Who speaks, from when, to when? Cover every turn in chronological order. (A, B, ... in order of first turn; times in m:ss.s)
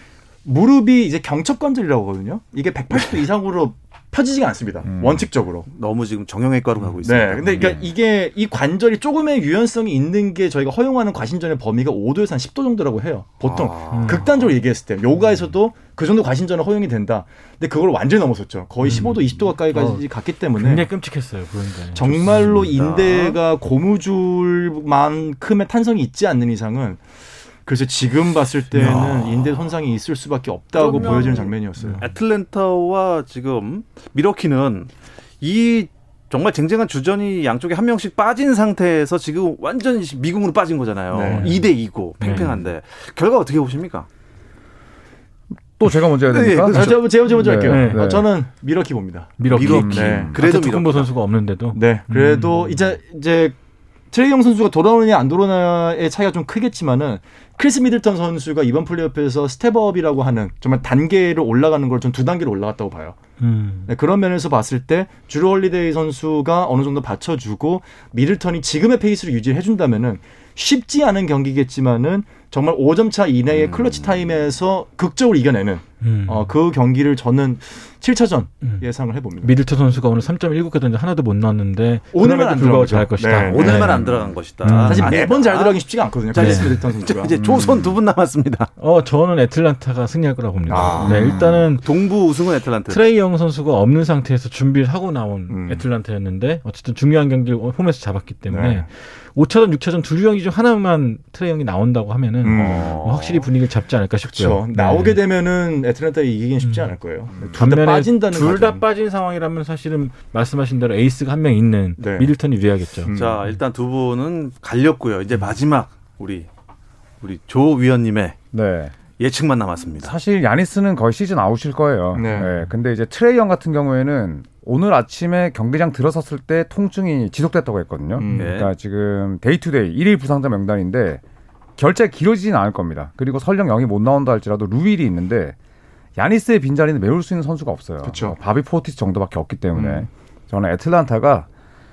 0:00.4-0:05.7 A
0:04.8-0:05.3 B
0:05.7-0:07.9 C
0:07.0-0:20.9 A
0:13.4-0:14.5 C
0:13.9-0:14.3 D
0:18.8-0:22.8 D
0:21.9-0:27.0 A
0:22.3-0:23.4 C
0:27.7-0:32.1 A
0:28.7-0:29.7 C
0:30.8-0:34.9 C
0:31.0-0:32.0 D
0:35.4-0:44.1 C
0:41.1-0:41.6 A
0:41.3-0:41.6 D
0:42.2-0:42.5 D
0:45.8-0:48.3 B
0:46.2-0:47.1 C
0:46.7-0:49.4 A
0:47.6-0:48.1 D
0:49.4-0:52.8 D
0:49.5-0:51.1 C
0:49.5-0:50.4 B
0:49.9-0:50.4 A
0:51.7-0:53.6 A
0:54.1-1:03.2 A
1:03.4-1:03.9 D
1:03.9-1:19.6 A
1:13.5-1:14.4 C
1:16.0-1:16.5 D
1:19.4-1:24.0 D
1:22.1-1:24.1 A
1:23.4-1:28.7 C
1:24.6-1:25.1 D
1:24.8-1:27.4 A
1:26.4-1:26.8 D
1:27.4-1:28.0 B
1:28.8-1:31.9 D
1:30.7-1:31.6 A
1:30.9-1:33.0 C
1:32.9-1:45.2 D
1:35.5-1:35.8 A
1:38.5-1:38.9 A
1:42.4-1:43.0 A
1:42.6-1:43.5 C
1:44.3-1:48.8 A
1:46.6-1:46.9 D
1:47.6-1:53.1 D
1:52.0-1:52.3 A
1:53.0-1:53.4 A
1:53.1-1:56.5 C
1:57.2-1:58.4 C
1:58.5-1:58.9 B
1:59.2-2:00.1 C
2:00.0-2:11.2 B
2:02.1-2:02.6 A
2:08.2-2:08.5 A
2:08.4-2:08.7 C
2:11.8-2:15.6 B
2:16.2-2:21.5 B
2:18.0-2:18.4 A
2:19.8-2:20.1 A